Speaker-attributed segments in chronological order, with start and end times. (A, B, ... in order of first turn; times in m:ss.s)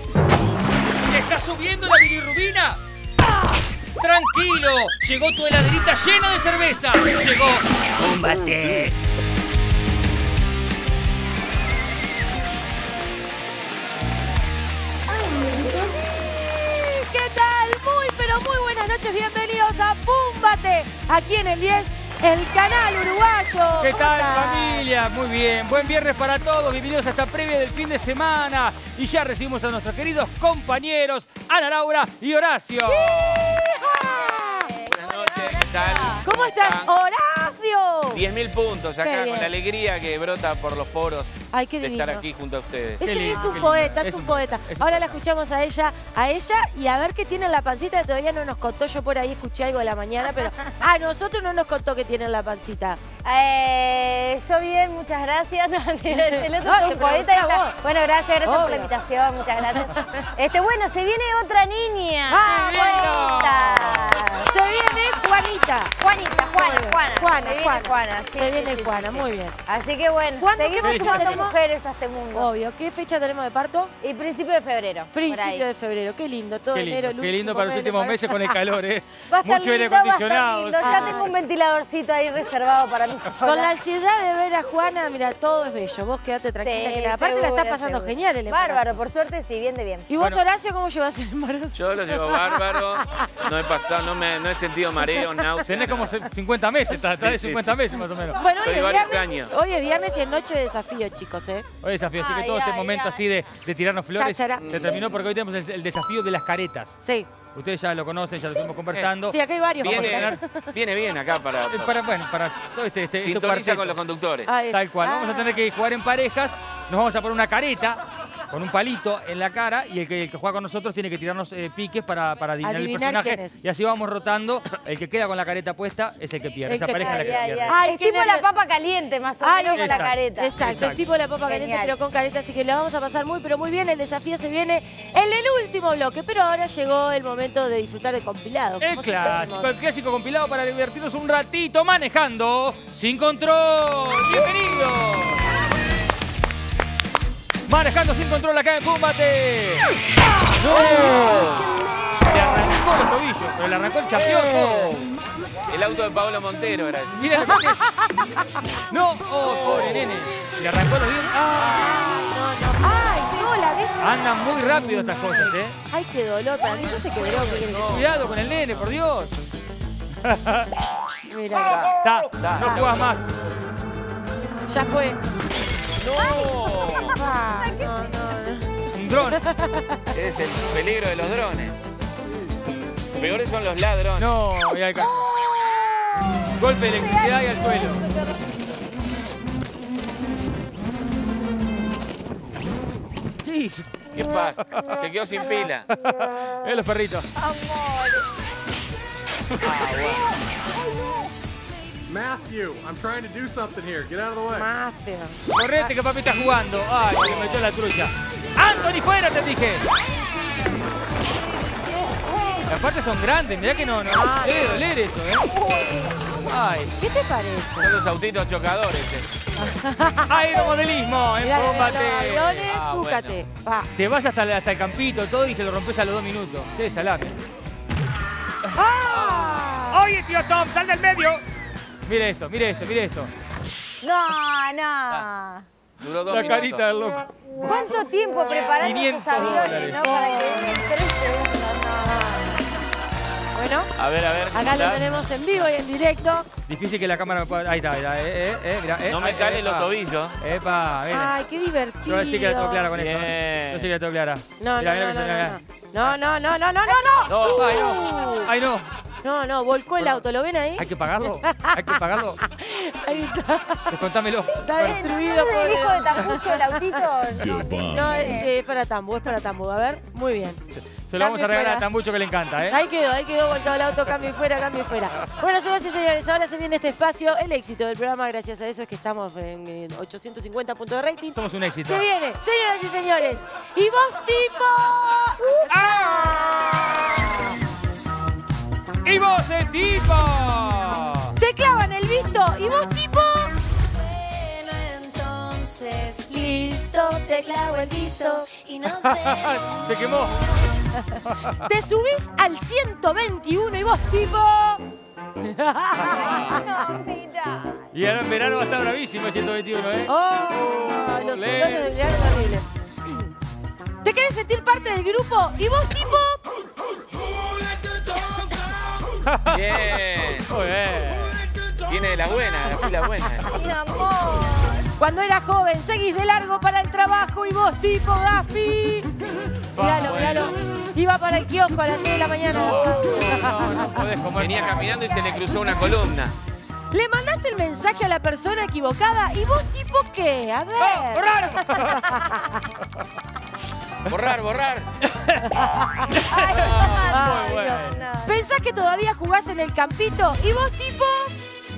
0:01.1-0:02.8 A
0:04.0-0:08.9 A
0:15.3-0:24.9 B
0:23.8-0:33.5 A
0:32.9-0:34.7 B
0:34.6-0:36.2 C
0:34.9-0:36.9 D
0:36.2-0:38.2 B
0:38.1-0:43.0 D
0:39.0-0:39.5 B
0:41.5-0:42.2 B
0:43.0-0:53.0 B
0:43.0-0:45.2 A
0:43.3-0:43.7 C
0:53.2-1:04.5 C
0:56.2-0:57.8 B
0:58.4-0:58.9 B
0:59.8-1:00.1 B
1:02.3-1:03.1 B
1:02.4-1:04.2 A
1:04.5-1:09.6 B
1:06.0-1:12.5 C
1:10.4-1:11.6 B
1:10.8-1:11.5 A
1:12.3-1:13.9 B
1:14.0-1:15.6 C
1:15.1-1:18.6 B
1:16.7-1:21.3 A
1:19.3-1:23.7 C
1:20.8-1:21.3 B
1:23.4-1:28.8 B
1:26.6-1:30.1 C
1:30.1-1:33.3 B
1:31.7-1:36.2 D
1:35.6-1:38.4 A
1:37.0-1:37.9 D
1:38.3-1:41.7 B
1:38.6-1:39.5 D
1:41.8-1:46.9 A
1:42.2-1:43.2 C
1:44.2-1:44.7 B
1:44.6-1:45.1 D
1:47.0-1:47.3 B
1:47.5-1:50.4 A
1:49.3-1:50.7 B
1:49.8-1:52.0 D
1:51.7-1:54.0 A
1:53.2-1:54.5 D
1:54.5-1:55.6 B
1:54.7-2:07.8 A
2:02.6-2:03.5 B
2:06.6-2:08.4 B
2:07.0-2:10.5 C
2:09.4-2:19.7 B
2:09.7-2:11.0 A
2:11.4-2:11.9 C
2:18.8-2:25.5 A
2:27.7-2:29.8 A
2:30.6-2:35.1 A
2:35.7-2:37.2 D
2:37.1-2:38.1 A
2:37.5-2:38.1 B
2:38.9-2:42.0 A
2:39.4-2:40.1 D
2:41.6-2:48.3 B
2:44.0-2:45.8 A
2:47.1-2:48.9 D
2:47.8-2:49.4 A
2:50.2-2:50.7 A
2:51.3-2:51.9 B
2:51.7-2:53.2 D
2:52.0-2:53.2 A
2:54.7-2:55.2 B
2:56.0-2:57.2 D
2:56.1-2:58.2 C
2:57.1-3:00.0 B
2:58.9-2:59.4 A
3:00.1-3:01.7 D
3:03.1-3:04.3 D
3:04.2-3:05.3 A
3:05.4-3:08.7 C
3:06.4-3:08.0 A
3:13.4-3:13.9 A
3:14.1-3:15.9 D
3:14.6-3:15.0 A
3:15.9-3:17.3 A
3:17.4-3:18.3 C
3:19.6-3:20.3 D
3:19.8-3:21.3 C
3:22.1-3:24.7 E
3:24.5-3:25.4 B
3:25.5-3:29.8 A
3:32.1-3:32.6 C
3:32.7-3:35.5 A
3:34.0-3:34.9 B
3:35.6-3:36.4 C
3:36.4-3:36.9 A
3:37.0-3:37.9 B
3:37.8-3:39.3 D
3:39.6-3:40.4 B
3:40.3-3:42.6 A
3:41.4-3:43.9 B
3:42.7-3:43.4 D
3:44.0-3:47.4 A
3:48.7-3:50.1 B
3:49.1-3:49.5 D
3:49.5-3:51.4 A
3:52.0-3:53.3 A
3:54.0-3:55.6 C
3:56.0-3:56.8 D
3:56.3-3:57.2 A
3:57.6-4:02.1 C
3:58.8-4:00.0 A
3:59.9-4:00.9 B
4:02.0-4:02.5 B
4:03.5-4:03.9 B
4:04.0-4:05.0 D
4:04.5-4:06.5 B
4:06.7-4:11.3 A
4:09.1-4:10.4 D
4:11.1-4:12.9 B
4:12.0-4:16.1 A
4:12.9-4:13.9 D
4:14.6-4:18.5 B
4:16.9-4:18.3 C
4:17.3-4:17.8 D
4:17.4-4:18.9 A
4:19.2-4:23.9 B
4:20.8-4:22.4 A
4:23.9-4:25.0 A
4:24.3-4:28.5 C
4:24.6-4:27.0 B
4:27.8-4:30.6 B
4:30.7-4:32.8 A
4:31.2-4:31.9 B
4:32.7-4:45.7 B
4:41.3-4:42.0 A
4:45.4-4:45.7 C
4:45.7-4:47.2 A
4:49.0-4:51.3 A
4:51.4-4:53.5 B
4:54.2-4:59.6 B
4:59.0-5:00.4 A
5:00.9-5:04.8 B
5:01.3-5:01.6 A
5:05.4-5:06.6 B
5:06.0-5:07.9 C
5:06.1-5:06.5 A
5:07.9-5:12.2 A
5:10.1-5:12.6 B
5:14.0-5:16.4 B
5:19.2-5:19.8 A
5:19.5-5:20.5 D
5:20.5-5:21.4 A
5:21.8-5:23.5 D
5:23.4-5:24.9 C
5:25.0-5:29.1 B
5:29.7-5:30.5 A
5:29.7-5:33.7 B
5:30.0-5:30.5 D
5:32.4-5:34.9 A
5:34.4-5:36.3 D
5:36.9-5:42.6 B
5:40.8-5:42.2 A
5:44.0-5:44.9 D
5:45.0-5:45.5 A
5:45.6-5:51.3 B
5:46.1-5:48.0 A
5:46.2-5:48.4 C